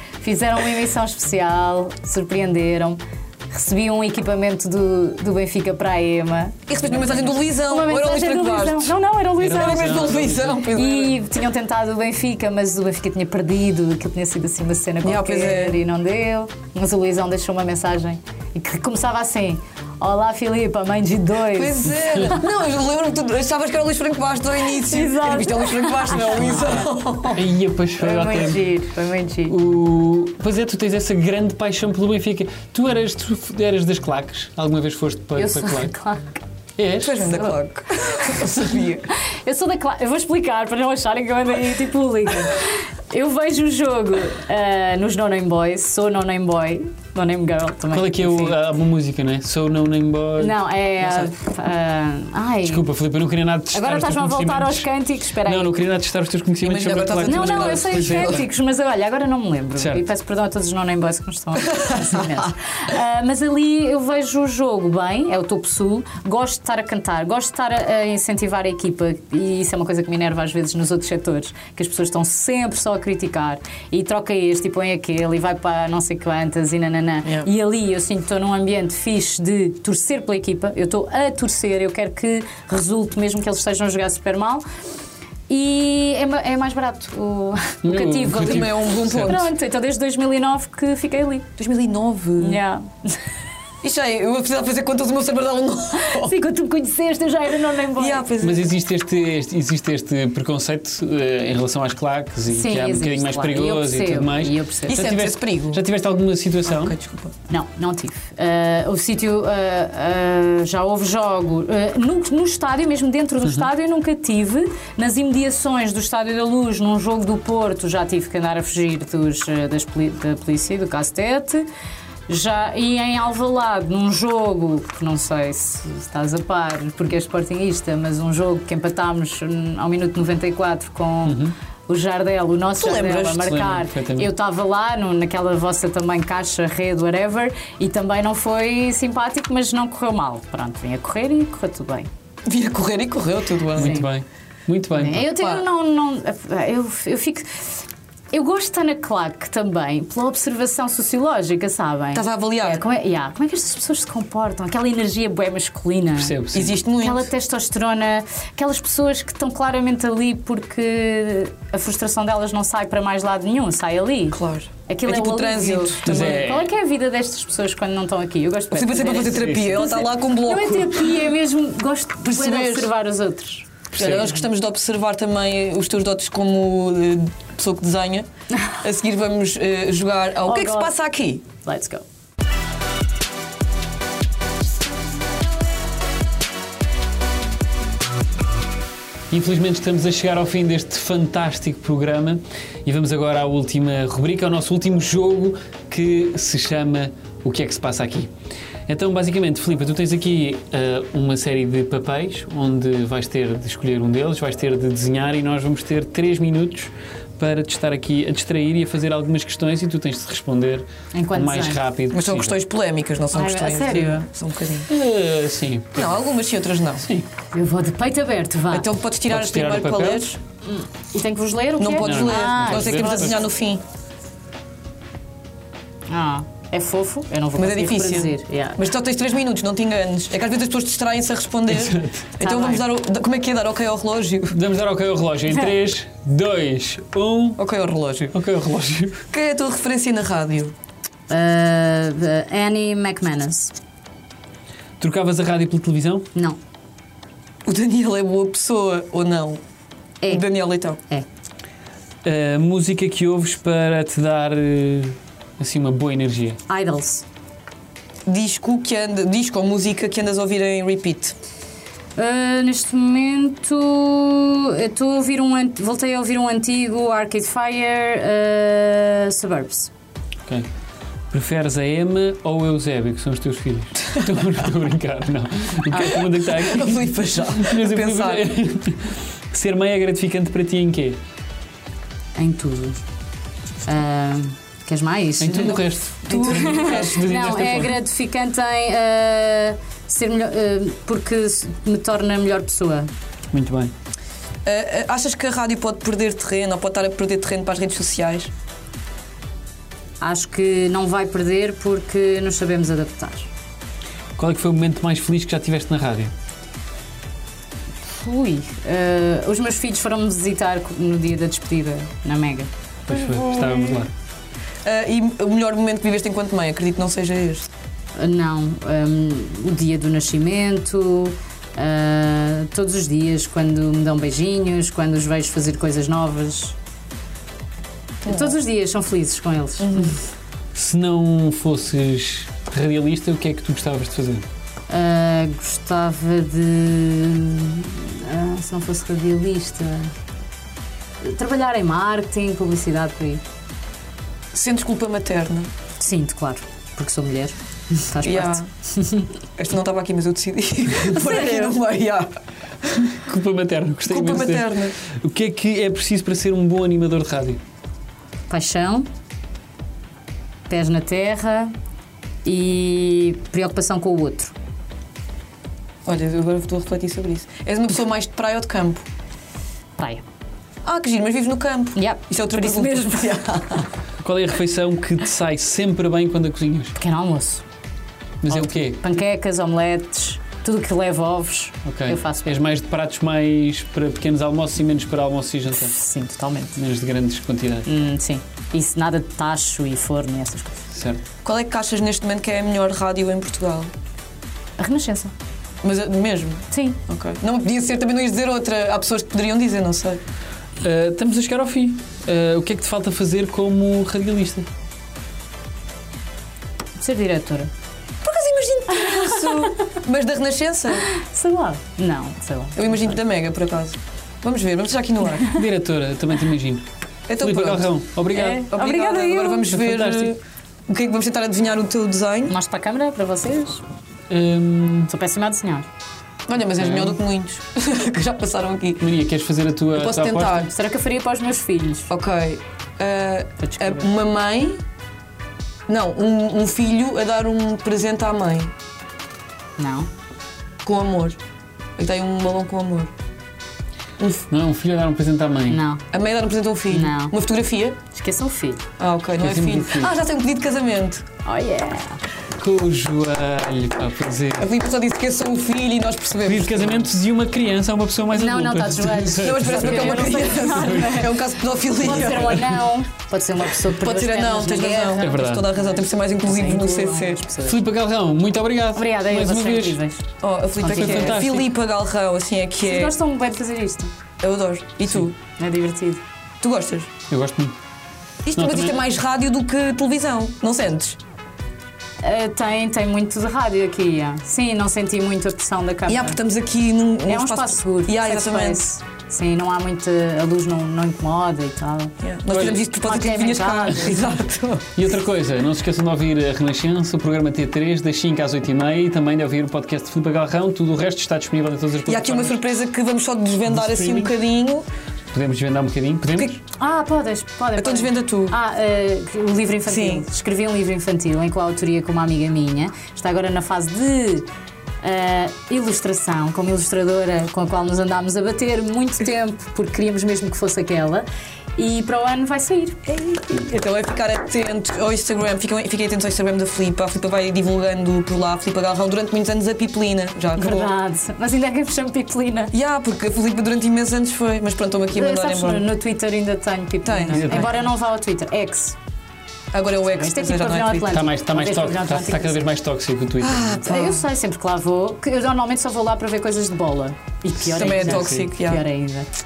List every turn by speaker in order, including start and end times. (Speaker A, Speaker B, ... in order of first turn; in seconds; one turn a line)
Speaker A: 0.2-22.4
Speaker B: 6.7-11.2
Speaker C: 9.4-10.7
Speaker B: 15.0-15.8
Speaker B: 21.5-27.4
Speaker A: 24.7-26.9
Speaker C: 27.3-28.7
Speaker A: 28.0-29.6
Speaker C: 29.5-35.9
Speaker A: 35.4-36.4
Speaker C: 36.8-37.5
Speaker B: 37.0-39.1
Speaker A: 38.1-38.6
Speaker A: 39.2-48.6
Speaker C: 47.9-50.5
Speaker A: 50.4-52.8
Speaker B: 51.0-51.3
Speaker C: 52.7-54.9
Speaker A: 53.7-55.8
Speaker C: 55.4-58.5
Speaker B: 56.6-58.4
Speaker A: 57.3-84.6
Speaker C: 59.8-60.0
Speaker B: 61.7-62.2
Speaker A: 85.5-91.5
Speaker C: 87.8-89.4
Speaker B: 88.3-89.5
Speaker B: 91.6-92.6
Speaker A: 92.4-93.2
Speaker B: 93.8-96.3
Speaker A: 95.9-98.3
Speaker B: 98.0-98.7
Speaker C: 98.4-107.0
Speaker A: 102.5-105.1
Speaker B: 104.9-105.8
Speaker B: 106.7-107.3
Speaker A: 107.5-121.7
Speaker A: 122.3-142.1
Speaker C: 131.2-131.6
Speaker B: 132.8-133.4
Speaker C: 133.2-134.3
Speaker B: 142.5-144.0
Speaker A: 143.8-144.1
Speaker C: 143.8-145.3
Speaker A: 144.9-147.7
Speaker B: 145.3-145.7
Speaker A: 148.3-156.4
Speaker B: 152.2-152.8
Speaker C: 156.2-156.8
Speaker B: 156.5-157.3
Speaker A: 157.0-173.7
Speaker B: 164.3-166.5
Speaker C: 166.1-166.7
Speaker B: 168.7-171.2
Speaker C: 169.3-169.8
Speaker B: 172.2-172.9
Speaker C: 173.9-174.4
Speaker B: 173.9-178.3
Speaker B: 178.8-181.5
Speaker A: 180.4-180.9
Speaker A: 181.6-182.0
Speaker C: 189.3-198.3
Speaker C: 198.9-212.6
Speaker A: 211.1-211.8
Speaker B: 212.1-214.9
Speaker A: 213.3-214.2
Speaker C: 214.9-216.1
Speaker B: 216.0-217.1
Speaker A: 217.5-218.9
Speaker B: 218.7-220.4
Speaker C: 219.3-220.2
Speaker A: 220.6-223.4
Speaker B: 221.8-223.8
Speaker C: 222.0-223.4
Speaker A: 226.1-228.8
Speaker B: 227.6-234.6
Speaker C: 231.7-232.3
Speaker A: 232.4-232.8
Speaker C: 234.5-237.6
Speaker B: 237.6-238.3
Speaker C: 238.3-239.2
Speaker B: 239.3-240.7
Speaker A: 241.3-243.7
Speaker C: 245.0-246.3
Speaker B: 247.7-249.6
Speaker A: 250.2-250.5
Speaker B: 250.3-251.0
Speaker C: 252.2-256.6
Speaker A: 256.7-257.2
Speaker B: 258.3-261.4
Speaker A: 262.2-269.9
Speaker C: 271.3-281.2
Speaker B: 275.9-278.4
Speaker A: 282.4-283.0
Speaker A: 283.9-293.1
Speaker C: 285.4-288.0
Speaker B: 285.6-287.2
Speaker C: 293.5-293.9
Speaker B: 294.6-298.5
Speaker A: 300.2-303.5
Speaker C: 304.4-306.3
Speaker A: 308.1-312.7
Speaker C: 313.1-314.1
Speaker B: 313.1-314.0
Speaker B: 314.8-317.7
Speaker A: 318.2-326.8
Speaker B: 328.2-328.6
Speaker A: 328.2-330.2
Speaker B: 329.8-330.2
Speaker C: 330.7-334.4
Speaker A: 334.9-340.1
Speaker A: 341.2-343.4
Speaker B: 344.5-345.7
Speaker A: 346.0-349.3
Speaker B: 348.2-348.7
Speaker B: 349.6-352.3
Speaker A: 351.1-351.8
Speaker C: 353.1-357.6
Speaker B: 354.1-354.9
Speaker A: 358.5-359.1
Speaker A: 360.7-361.7
Speaker A: 362.4-364.6
Speaker B: 366.1-369.1
Speaker A: 370.0-370.2
Speaker B: 370.8-373.9
Speaker A: 372.0-373.5
Speaker C: 374.2-376.9
Speaker A: 377.0-377.6
Speaker C: 378.4-379.0
Speaker A: 378.5-382.6
Speaker C: 381.9-386.0
Speaker A: 385.8-386.8
Speaker C: 386.8-387.9
Speaker A: 387.9-390.8
Speaker C: 390.9-391.2
Speaker B: 391.4-393.9
Speaker A: 394.8-395.3
Speaker B: 395.8-400.2
Speaker A: 396.7-397.0
Speaker C: 400.8-404.7
Speaker A: 407.0-407.7
Speaker B: 408.2-411.1
Speaker A: 408.9-409.9
Speaker A: 411.0-413.2
Speaker B: 412.8-415.6
Speaker C: 415.5-418.7
Speaker B: 417.3-417.9
Speaker A: 418.3-419.7
Speaker B: 418.7-422.6
Speaker C: 419.7-420.3
Speaker A: 422.5-423.8
Speaker C: 424.3-425.1
Speaker A: 425.1-425.9
Speaker B: 426.5-429.1
Speaker C: 426.8-427.2
Speaker C: 429.0-430.7
Speaker B: 429.9-430.7
Speaker A: 430.6-432.1
Speaker B: 432.1-434.8
Speaker A: 433.6-434.1
Speaker B: 435.9-438.7
Speaker A: 439.8-440.1
Speaker B: 440.8-441.4
Speaker B: 442.0-443.1
Speaker B: 444.2-444.5
Speaker C: 444.5-445.8
Speaker A: 445.7-446.0
Speaker B: 446.1-448.0
Speaker A: 446.9-447.4
Speaker A: 448.1-448.8
Speaker B: 449.0-451.3
Speaker C: 449.4-450.1
Speaker A: 451.4-452.2
Speaker C: 452.6-454.7
Speaker B: 454.6-457.1
Speaker C: 456.4-461.3
Speaker A: 458.3-461.4
Speaker B: 459.4-462.8
Speaker A: 462.0-465.8
Speaker C: 462.1-462.8
Speaker B: 464.0-467.4
Speaker C: 465.2-465.7
Speaker A: 466.4-467.8
Speaker C: 467.7-470.0
Speaker A: 468.9-470.2
Speaker B: 470.4-473.1
Speaker A: 470.8-471.4
Speaker C: 470.8-471.7
Speaker A: 472.9-474.1
Speaker B: 474.4-475.4
Speaker A: 475.6-476.2
Speaker B: 476.6-477.1
Speaker C: 477.3-477.8
Speaker B: 478.4-481.2
Speaker C: 478.6-479.0
Speaker A: 482.2-486.4
Speaker B: 486.1-488.9
Speaker A: 487.3-494.4
Speaker B: 492.2-494.9
Speaker C: 492.5-492.8
Speaker C: 495.0-502.6
Speaker B: 502.1-504.9
Speaker C: 503.7-504.3
Speaker C: 505.3-506.6
Speaker A: 506.7-514.5
Speaker B: 507.8-508.6
Speaker B: 509.9-510.3
Speaker A: 515.0-521.3
Speaker A: 521.8-523.0
Speaker B: 523.1-530.9
Speaker A: 530.5-532.7
Speaker B: 532.7-535.9
Speaker A: 535.1-539.0
Speaker B: 537.0-537.8
Speaker C: 537.3-537.8
Speaker B: 539.7-541.1
Speaker A: 540.1-542.7
Speaker C: 541.0-543.9
Speaker B: 543.4-544.2
Speaker A: 543.9-549.3
Speaker B: 547.6-548.9
Speaker C: 547.8-548.5